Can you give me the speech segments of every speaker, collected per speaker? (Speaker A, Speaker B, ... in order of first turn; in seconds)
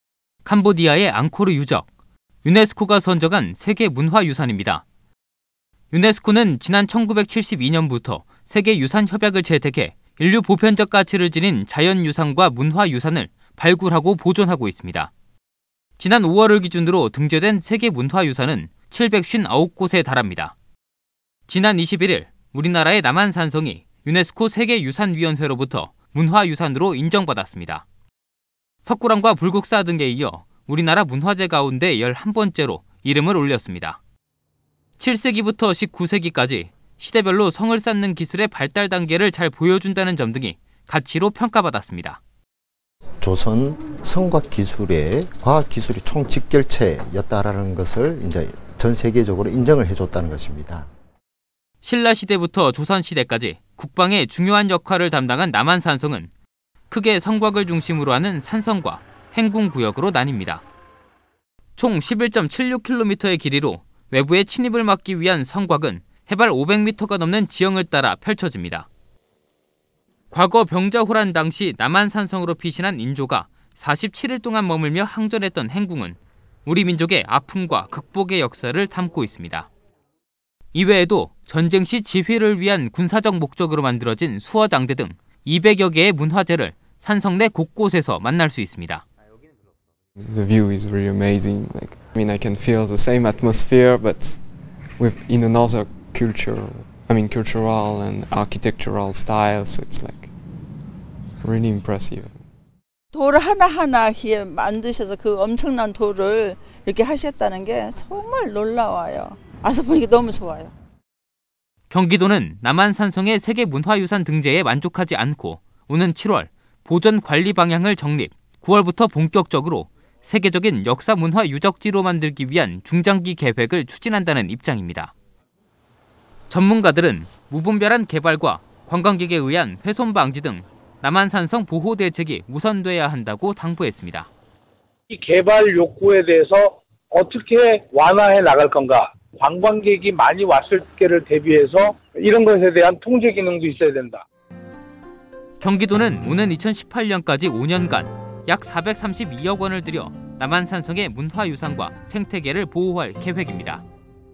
Speaker A: 0.4-1.9, 2.4-4.8, 5.9-15.1, 16.0-20.5, 21.5-27.9, 28.8-34.0, 35.0-42.2, 51.8-56.3, 56.9-60.6, 61.8-68.9, 70.3-79.7, 80.7-89.0, 111.9-125.1, 126.5-134.3, 145.6-153.8
Speaker B: 43.2-50.9
Speaker C: 90.2-100.3, 101.4-102.4
Speaker D: 103.1-110.7
Speaker E: 135.1-144.2